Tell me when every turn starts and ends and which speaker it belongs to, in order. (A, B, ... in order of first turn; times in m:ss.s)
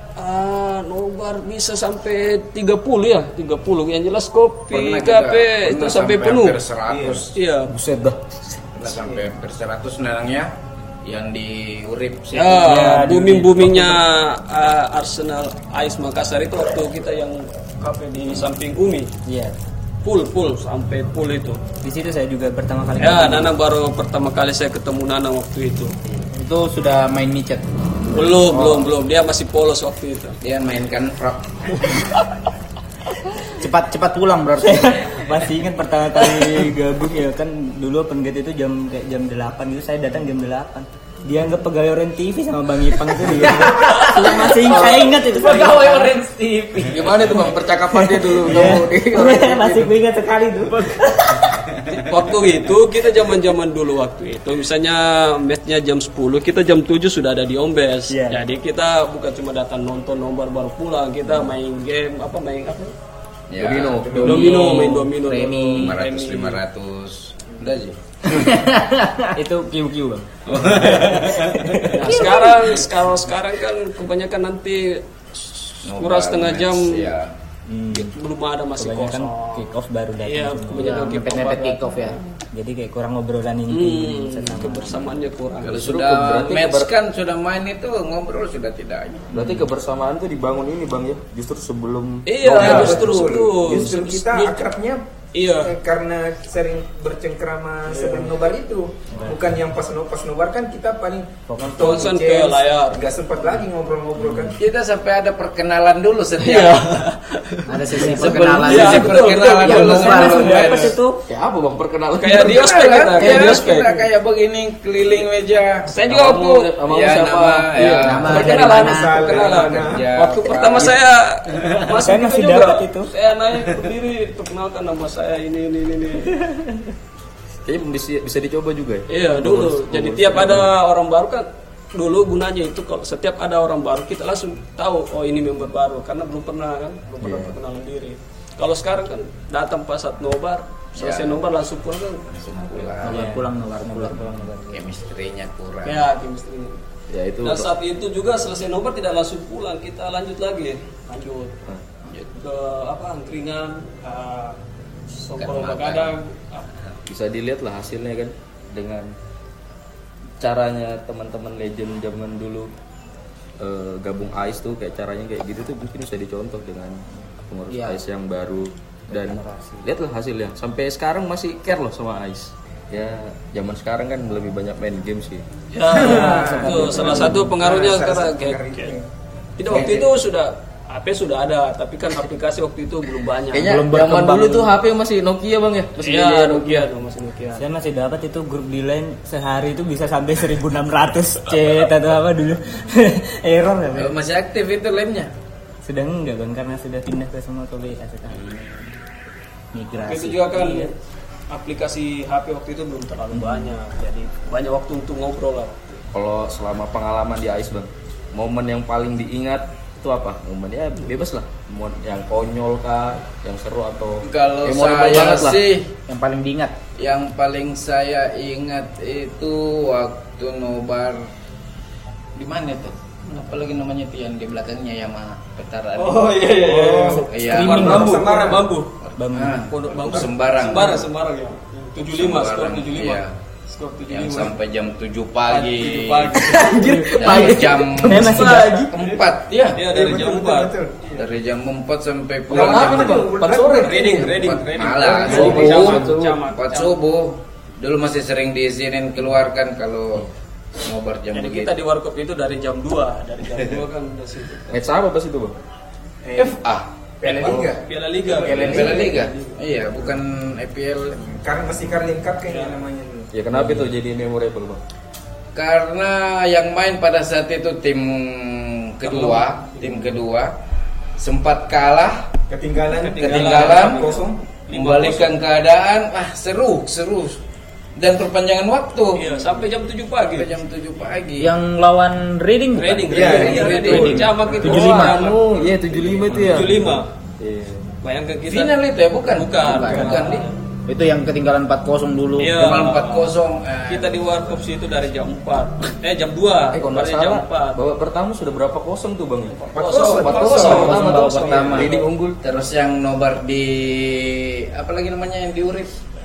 0:00.2-0:06.6 A
0:04.7-0:07.3 B
0:06.9-0:07.2 C
0:07.3-0:07.7 A
0:07.7-0:08.8 D
0:08.8-0:10.5 B
0:11.0-0:12.6 B
0:12.3-0:19.1 A
0:12.5-0:14.0 E
0:19.2-0:19.5 E
0:20.0-0:21.6 A
0:21.8-0:23.5 E
0:23.0-0:25.9 A
0:26.3-0:28.9 F
0:28.1-0:30.4 A
0:30.4-0:32.1 B
0:33.5-0:35.2 F
0:34.6-0:46.1 E
0:43.3-0:47.2 F
0:44.2-0:45.2 D
0:46.9-0:49.9 D
0:48.0-0:51.6 E
0:52.0-1:02.9 A
0:58.1-0:58.5 E
1:03.5-1:04.8 B
1:03.6-1:05.0 D
1:04.0-1:04.8 C
1:04.2-1:06.6 A
1:05.2-1:06.0 F
1:05.7-1:08.0 B
1:08.2-1:09.3 F
1:09.4-1:12.2 E
1:10.5-1:11.8 B
1:11.9-1:17.1 A
1:15.8-1:17.3 B
1:17.7-1:18.1 E
1:17.9-1:22.2 A
1:18.8-1:21.0 E
1:20.7-1:22.2 F
1:22.5-1:25.2 E
1:23.7-1:26.0 A
1:25.6-1:29.3 B
1:25.7-1:26.9 D
1:29.3-1:33.2 D
1:32.2-1:34.7 A
1:32.5-1:35.0 C
1:35.3-1:35.7 A
1:35.6-1:44.6 C
1:38.0-1:38.2 E
1:39.1-1:39.6 E
1:41.5-1:42.0 E
1:41.6-1:43.1 A
1:44.6-1:47.0 B
1:46.4-1:50.2 A
1:47.7-1:51.0 F
1:48.0-1:51.0 B
1:48.0-1:48.3 E
1:49.8-1:51.2 E
1:51.2-1:52.6 D
1:52.2-1:53.9 A
1:52.4-1:58.5 B
1:55.8-1:56.6 A
1:56.1-1:58.3 D
1:58.0-1:59.4 F
1:58.2-2:06.4 A
1:58.3-2:00.0 C
1:59.3-2:01.1 B
2:01.6-2:03.1 E
2:06.4-2:06.8 E
2:07.6-2:10.7 D
2:09.1-2:23.0 A
2:17.2-2:17.6 D
2:21.0-2:21.4 B
2:22.4-2:23.4 B
2:23.0-2:24.8 E
2:23.0-2:24.3 F
2:24.7-2:26.1 B
2:25.8-2:26.8 A
2:27.1-2:27.7 D
2:27.4-2:31.6 A
2:32.0-2:32.4 B
2:32.4-2:36.7 A
2:35.3-2:36.1 B
2:37.1-2:39.1 D
2:40.4-2:42.7 D
2:43.6-2:55.4 D
2:47.7-2:48.0 F
2:49.1-2:49.8 E
2:55.7-2:59.0 A
2:55.9-2:59.0 C
2:56.1-2:57.2 E
2:56.6-2:57.4 D
2:59.6-3:03.7 A
2:59.6-3:00.1 C
3:03.5-3:06.8 D
3:03.6-3:04.7 F
3:06.0-3:07.6 A
3:07.6-3:14.1 E
3:13.9-3:15.3 B
3:15.8-3:18.8 E
3:19.7-3:20.5 F
3:20.0-3:20.9 A
3:20.5-3:20.9 E
3:21.5-3:26.0 A
3:23.4-3:23.7 E
3:26.1-3:35.6 D
3:34.2-3:35.9 B
3:36.1-3:36.8 F
3:37.0-3:41.3 B
3:42.4-3:46.3 B
3:46.0-3:49.0 A
3:46.5-3:48.7 C
3:47.3-3:48.2 B
3:49.0-3:51.1 B
3:49.2-3:49.6 E
3:49.7-3:54.5 A
3:52.0-3:53.3 B
3:54.1-3:59.8 B
3:55.5-3:57.6 A
3:56.3-3:58.9 E
3:58.1-3:59.2 A
3:59.7-4:01.3 A
3:59.9-4:01.0 C
4:01.2-4:03.3 B
4:02.5-4:04.5 D
4:02.5-4:04.3 C
4:03.2-4:07.0 A
4:04.3-4:11.7 B
4:05.0-4:05.4 C
4:05.0-4:06.4 D
4:11.3-4:14.8 A
4:14.7-4:15.6 D
4:16.2-4:16.6 C
4:16.4-4:17.6 B
4:17.2-4:19.3 C
4:17.3-4:19.5 A
4:17.4-4:17.7 D
4:18.3-4:21.2 B
4:21.1-4:23.3 C
4:22.5-4:22.8 A
4:23.3-4:24.8 D
4:23.6-4:23.8 E
4:25.5-4:30.5 B
4:29.0-4:30.1 A
4:31.2-4:32.3 B
4:32.5-4:34.4 C
4:32.9-4:35.3 A
4:33.2-4:34.1 B
4:34.7-4:37.4 B
4:38.0-4:39.7 B
4:39.2-4:40.5 A
4:40.2-4:41.5 B
4:41.4-4:44.4 F
4:42.7-4:47.1 A
4:43.1-4:45.0 C
4:43.3-4:44.2 B
4:44.6-4:47.9 D
4:48.0-4:48.8 A
4:48.4-4:50.5 B
4:49.3-4:50.5 A
4:49.6-4:50.2 F
4:49.8-4:50.2 C
4:50.9-4:52.8 F
4:52.4-4:53.3 A
4:52.6-4:54.6 B
4:53.9-4:57.8 A
4:56.7-4:59.6 D
4:59.5-5:02.0 A
4:59.7-5:01.2 C
5:00.2-5:02.4 D
5:00.7-5:01.9 F
5:02.4-5:06.0 B